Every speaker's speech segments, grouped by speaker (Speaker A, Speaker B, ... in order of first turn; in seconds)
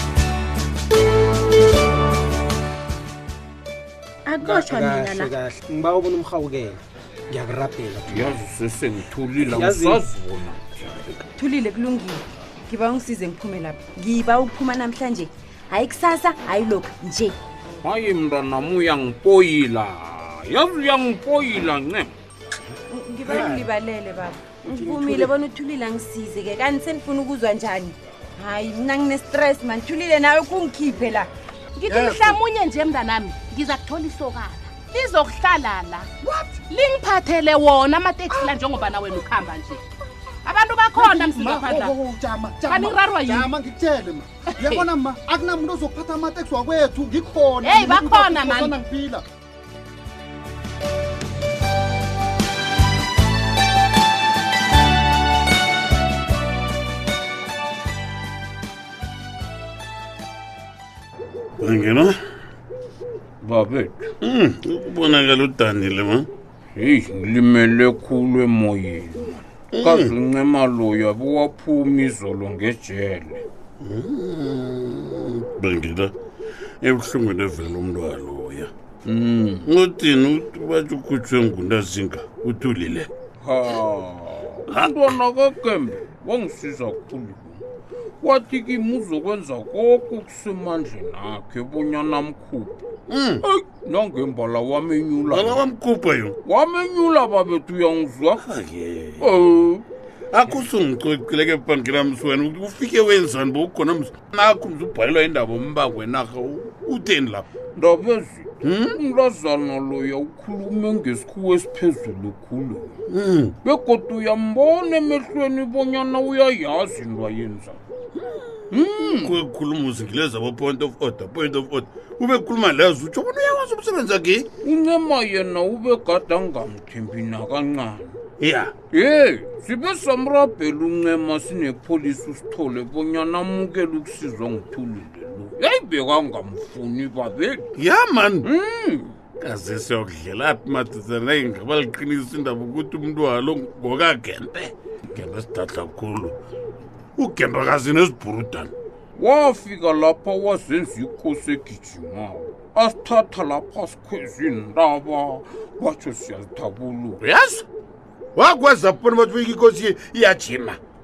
Speaker A: 4.3-5.3, 11.4-17.4, 22.9-31.3
Speaker B: 4.4-8.4, 9.4-10.0, 24.7-25.1
Speaker C: 8.1-11.1, 17.8-22.1, 63.4-64.1, 66.8-73.4, 79.0-79.6, 83.4-87.6, 88.2-92.8, 93.4-95.6, 96.4-98.4, 99.2-99.8, 107.7-113.0, 113.6-117.8, 118.7-119.4, 124.6-128.2, 128.9-137.7, 138.4-139.2, 149.2-157.2
Speaker D: 23.2-23.6, 31.9-32.4, 61.6-62.1, 64.2-66.3, 69.7-70.1, 73.8-76.1, 76.8-78.7, 79.6-83.1, 84.7-85.1, 93.1-93.4, 95.3-96.3, 98.4-99.3, 100.3-107.5, 108.6-109.0, 113.1-113.5, 118.2-124.5, 128.4-128.7, 137.8-138.5, 139.4-146.3, 147.2-148.7, 157.2-157.6, 158.3-160.8
Speaker E: 31.8-36.1, 36.7-39.8, 40.4-42.0, 42.7-43.5, 44.6-44.8, 47.6-48.8
Speaker F: 36.2-36.6, 38.3-38.5, 40.9-49.2